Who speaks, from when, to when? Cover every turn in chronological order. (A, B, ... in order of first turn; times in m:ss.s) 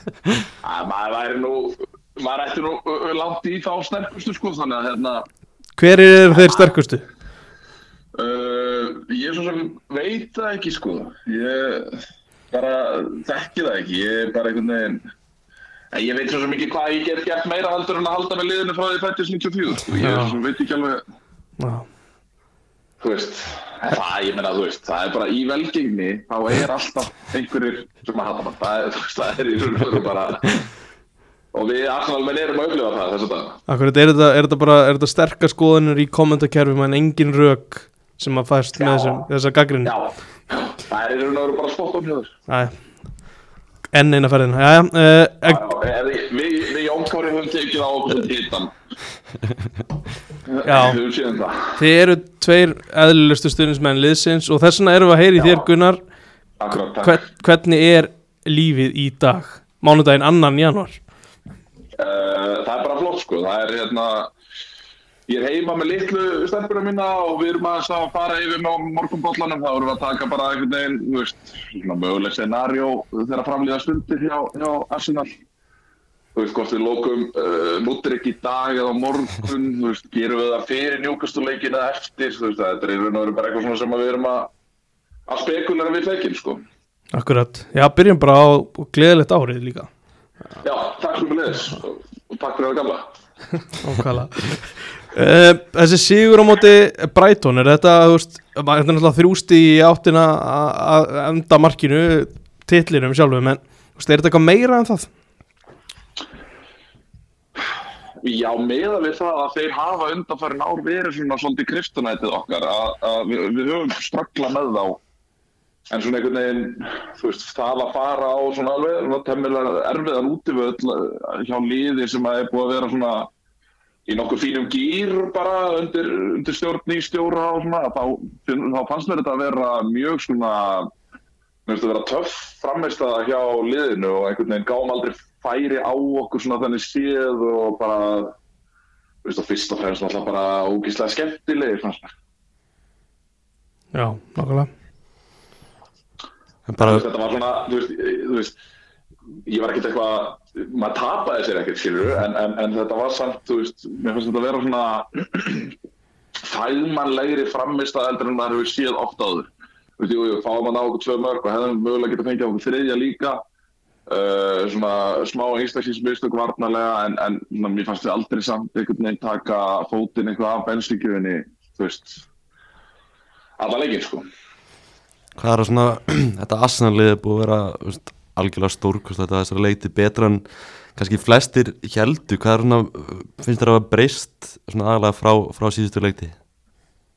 0:00.6-0:05.3 A
0:05.8-0:07.0 B
0:06.3-0:06.7 A
0:08.1-0:15.1 A
0:15.9-0:21.0 A
0:20.0-0:20.4 B
0:21.6-0:21.9 B
0:23.0-0:30.6 A
0:31.5-0:33.6 A
0:33.7-0:39.9 B
0:38.8-0:39.3 A
0:39.8-0:42.3 A
0:42.5-0:42.7 B
0:43.9-0:45.6 B
0:45.4-0:48.7 A
0:50.5-0:51.8 A
0:50.6-0:51.0 B
0:51.8-0:56.0 B
0:55.4-0:55.6 A
0:56.6-0:57.2 A
0:57.0-1:01.0 B
1:02.0-1:04.3 A
1:05.3-1:15.3 A
1:16.3-1:24.5 A
1:25.3-1:26.6 A
1:27.1-1:29.9 B
1:30.6-1:33.1 A
1:33.8-1:45.1 B
1:48.2-1:55.0 A
1:55.9-2:03.3 A
2:04.1-2:10.9 A
2:11.6-2:18.4 A
2:19.2-2:22.1 A
2:23.9-2:24.7 B
2:26.7-2:27.0 C
2:26.8-2:28.6 A
2:29.4-2:35.7 A
2:36.4-2:43.4 A
2:44.1-2:52.2 A
2:53.6-2:54.2 A
2:55.4-3:00.4 C
3:00.9-3:06.4 C